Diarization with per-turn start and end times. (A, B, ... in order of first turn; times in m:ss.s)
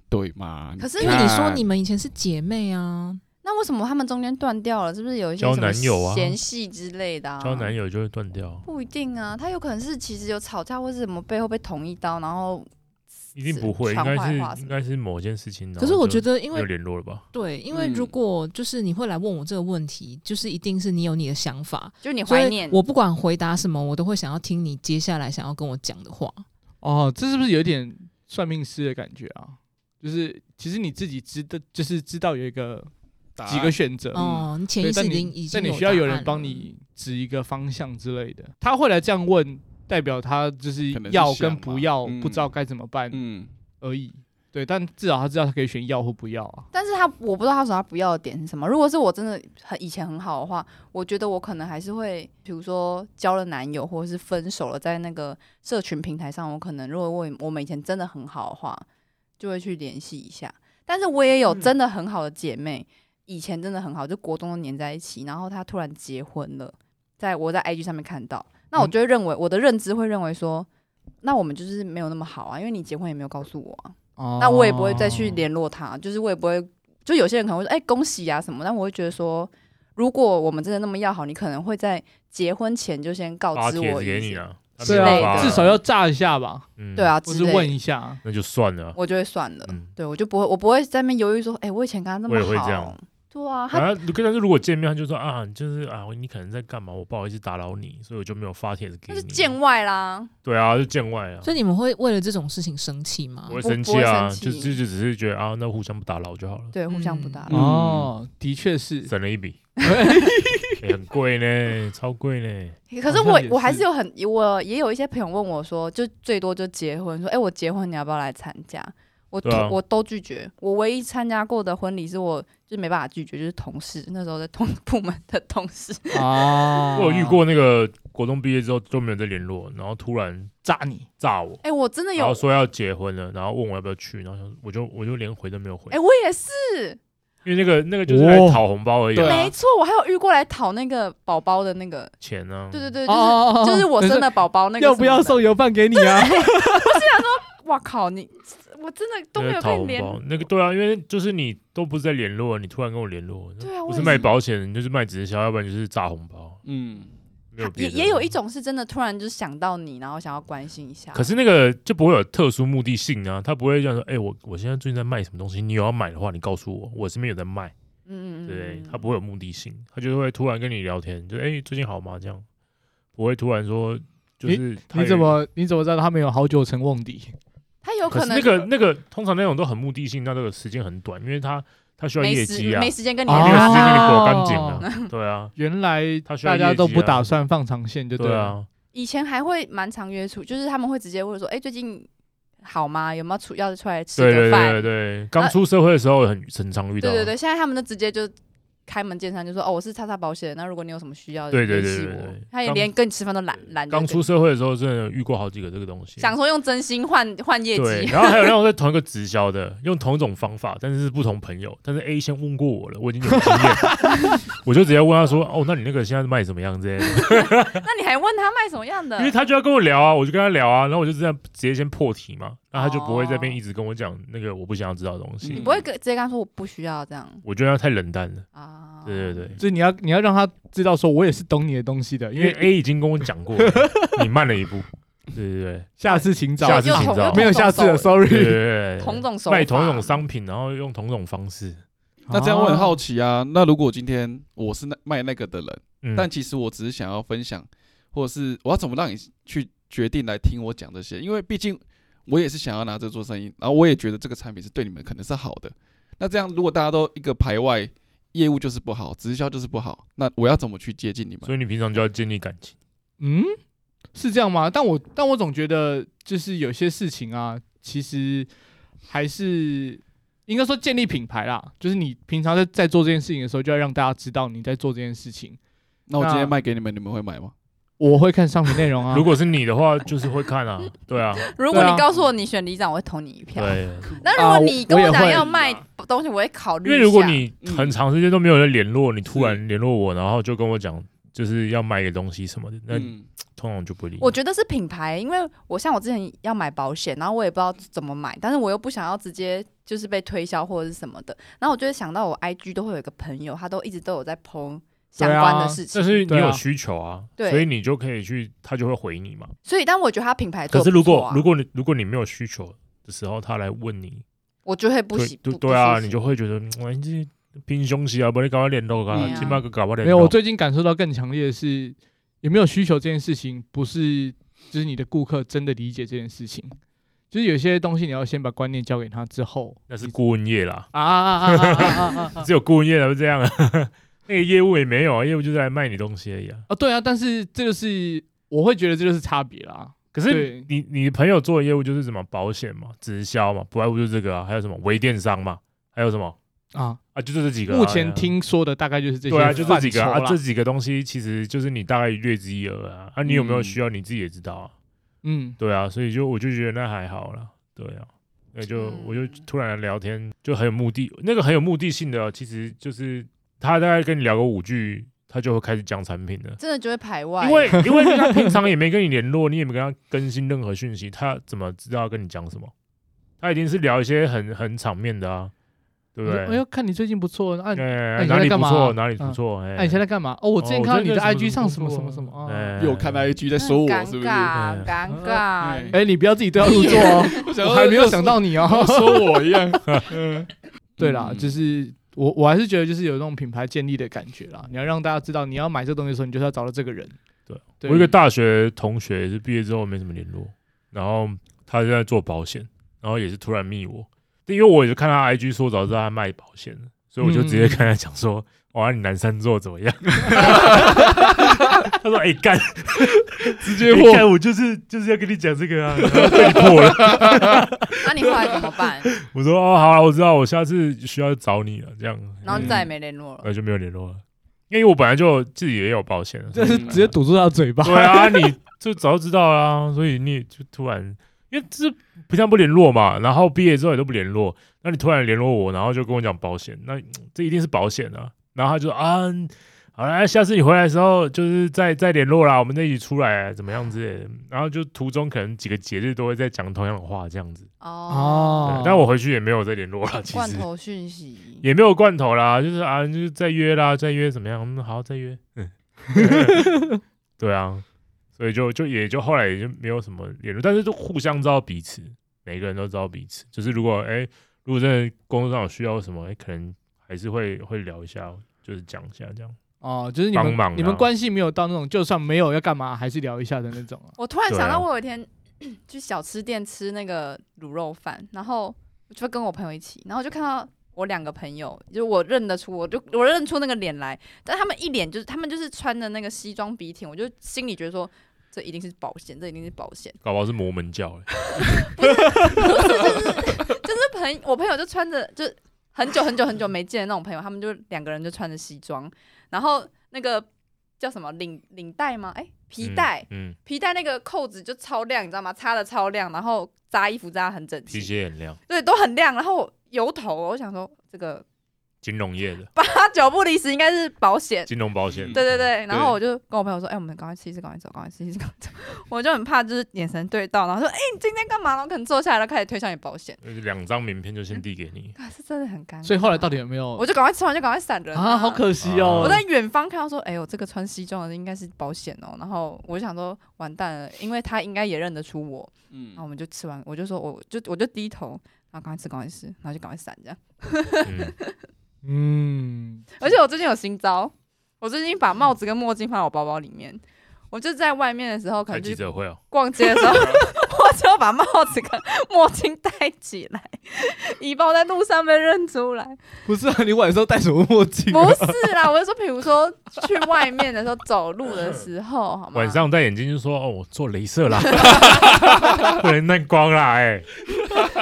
0:00.1-0:01.6 A
0:00.8-0:01.3 B
0:01.0-0:03.2 C
0:03.4-0:07.7 B
0:05.4-0:06.4 D
0:07.4-0:08.6 D
0:08.6-0:12.7 B
0:13.3-0:14.7 B
0:13.4-0:17.2 D
0:15.8-0:16.7 C
0:17.3-0:26.4 C
0:17.7-0:18.1 A
0:22.0-0:22.8 B
0:26.8-0:32.9 E
0:33.4-0:34.4 A
0:33.4-0:43.2 E
0:34.1-0:36.7 C
0:40.9-0:42.5 A
0:43.1-0:43.5 A
0:43.8-0:46.7 E
0:46.7-0:58.8 B
0:59.4-1:10.7 B
1:11.2-1:25.8 B
1:14.2-1:15.4 E
1:23.5-1:25.8 D
1:24.8-1:26.7 E
1:26.8-1:27.1 D
1:26.9-1:27.8 B
1:27.2-1:28.2 E
1:28.2-1:29.0 D
1:29.0-1:33.9 B
1:32.3-1:32.9 D
1:33.7-1:39.6 D
1:39.1-1:40.3 B
1:40.4-1:41.5 D
1:41.4-1:43.6 C
1:43.5-1:46.7 D
1:43.6-1:44.8 B
1:46.7-1:47.5 B
1:46.9-1:47.4 C
1:47.5-1:48.1 A
1:47.5-1:49.1 E
1:49.1-1:49.7 D
1:49.8-1:50.8 E
1:50.8-1:52.8 D
1:52.9-2:07.0 B
1:53.1-1:53.8 E
1:59.4-1:59.8 D
2:06.1-2:07.4 E
2:06.9-2:10.6 D
2:10.6-2:11.0 E
2:11.2-2:11.6 D
2:11.6-2:12.4 B
2:12.1-2:16.0 D
2:15.9-2:17.0 B
2:17.4-2:19.5 D
2:18.1-2:18.6 E
2:19.1-2:19.5 A
2:19.2-2:22.1 B
2:22.2-2:22.9 D
2:22.7-2:30.2 B
2:23.1-2:27.2 E
2:29.4-2:36.6 D
2:33.6-2:34.3 B
2:34.0-2:34.3 A
2:36.6-2:37.1 A
2:37.5-2:38.3 D
2:37.6-2:41.3 B
2:41.1-2:47.7 D
2:48.1-2:49.0 B
2:48.5-2:52.4 D
2:53.2-2:55.3 D
2:54.4-2:57.3 E
2:57.8-2:58.7 B
2:58.1-3:05.5 D
3:02.2-3:05.1 B
3:03.3-3:04.9 E
3:05.6-3:08.6 E
3:06.2-3:07.3 D
3:08.2-3:08.7 D
3:08.9-3:12.1 B
3:12.6-3:15.6 B
3:14.2-3:17.3 D
3:17.0-3:18.3 B
3:18.9-3:24.2 B
3:21.5-3:22.9 D
3:23.9-3:26.3 D
3:26.2-3:28.5 B
3:27.7-3:37.8 D
3:37.2-3:39.3 B
3:39.2-3:45.8 D
3:42.7-3:43.6 B
3:45.4-3:45.8 A
3:45.5-3:47.4 B
3:47.4-3:48.4 D
3:48.5-3:49.5 B
3:49.0-3:49.6 D
3:49.6-3:52.7 E
3:52.3-3:56.0 D
3:53.6-3:54.2 E
3:56.0-3:58.6 E
3:56.1-3:58.2 B
3:56.6-3:57.5 D
3:58.2-4:01.8 D
3:59.0-4:00.2 B
4:02.3-4:03.0 E
4:02.3-4:21.5 A
4:06.0-4:06.3 D
4:21.4-4:22.7 D
4:23.2-4:23.6 E
4:24.1-4:28.5 E
4:29.1-4:35.6 E
4:36.1-4:37.5 A
4:36.2-4:36.6 E
4:38.0-4:39.3 E
4:39.1-4:41.6 D
4:41.4-4:47.4 B
4:41.7-4:42.0 E
4:43.6-4:44.2 D
4:44.4-4:45.4 E
4:45.2-4:45.8 A
4:46.8-4:54.4 D
4:47.6-4:48.0 A
4:49.3-4:49.6 A
4:52.9-4:53.3 A
4:54.2-5:06.3 B
5:05.2-5:06.6 E
5:05.9-5:09.5 D
5:07.4-5:07.6 B
5:09.6-5:11.4 B
5:10.7-5:14.2 D
5:14.6-5:16.2 B
5:15.1-5:20.4 D
5:19.1-5:19.5 A
5:19.1-5:19.6 B
5:20.0-5:26.8 E
5:27.3-5:30.1 E
5:29.9-5:30.9 D
5:30.9-5:32.5 E
5:31.4-5:36.6 D
5:36.7-5:40.7 E
5:40.1-5:46.4 D
5:46.7-5:47.0 E
5:47.1-5:48.4 D
5:47.7-5:50.4 E
5:49.3-5:54.7 D
5:53.2-5:53.8 A
5:55.2-5:55.6 E
5:55.6-6:06.6 D
5:58.7-5:59.4 B
6:06.6-6:07.8 B
6:07.4-6:12.7 D
6:07.8-6:08.5 E
6:13.4-6:15.5 D
6:16.2-6:16.6 D
6:16.2-6:22.8 E
6:17.7-6:20.0 D
6:20.6-6:23.3 D
6:22.8-6:24.5 A
6:23.6-6:26.0 B
6:24.5-6:24.9 D
6:25.6-6:26.0 A
6:25.9-6:29.4 E
6:26.6-6:27.4 B
6:26.6-6:30.5 A
6:31.0-6:31.6 A
6:31.0-6:37.1 E
6:37.5-6:58.6 D
6:37.8-6:38.1 E
6:47.2-6:47.8 E
6:50.6-6:51.4 A
6:53.6-6:54.2 A
6:56.0-6:57.6 A
6:58.0-6:59.1 B
6:59.1-7:02.8 D
7:02.4-7:03.5 B
7:02.5-7:02.8 A
7:03.4-7:07.2 D
7:06.5-7:08.5 E
7:06.7-7:07.0 A
7:07.8-7:27.7 D
7:27.8-7:28.8 B
7:28.1-7:29.1 E
7:28.6-7:30.6 D
7:30.3-7:31.6 B
7:31.6-7:36.7 D
7:36.1-7:37.0 E
7:37.4-7:37.8 D
7:38.4-7:49.6 D
7:49.8-7:54.1 E
7:50.3-7:51.1 D
7:54.2-8:10.2 B
7:54.5-7:54.8 D
8:10.2-8:11.7 D
8:11.4-8:20.5 B
8:21.0-8:28.1 B
8:22.8-8:23.6 D
8:27.9-8:28.6 D
8:28.7-8:31.4 B
8:32.0-8:32.7 D
8:32.7-8:34.7 B
8:34.7-8:35.7 D
8:35.1-8:36.2 A
8:35.3-8:43.4 B
8:43.4-8:45.1 D
8:45.2-9:01.6 B
8:46.0-8:47.0 E
8:48.1-8:49.4 E
8:48.8-8:49.4 D
8:55.9-8:56.2 A
9:01.0-9:01.3 D
9:02.0-9:03.1 E
9:03.2-9:16.2 B
9:08.7-9:09.4 D
9:16.4-9:18.6 E
9:18.1-9:22.8 B
9:22.5-9:27.8 D
9:24.8-9:25.0 B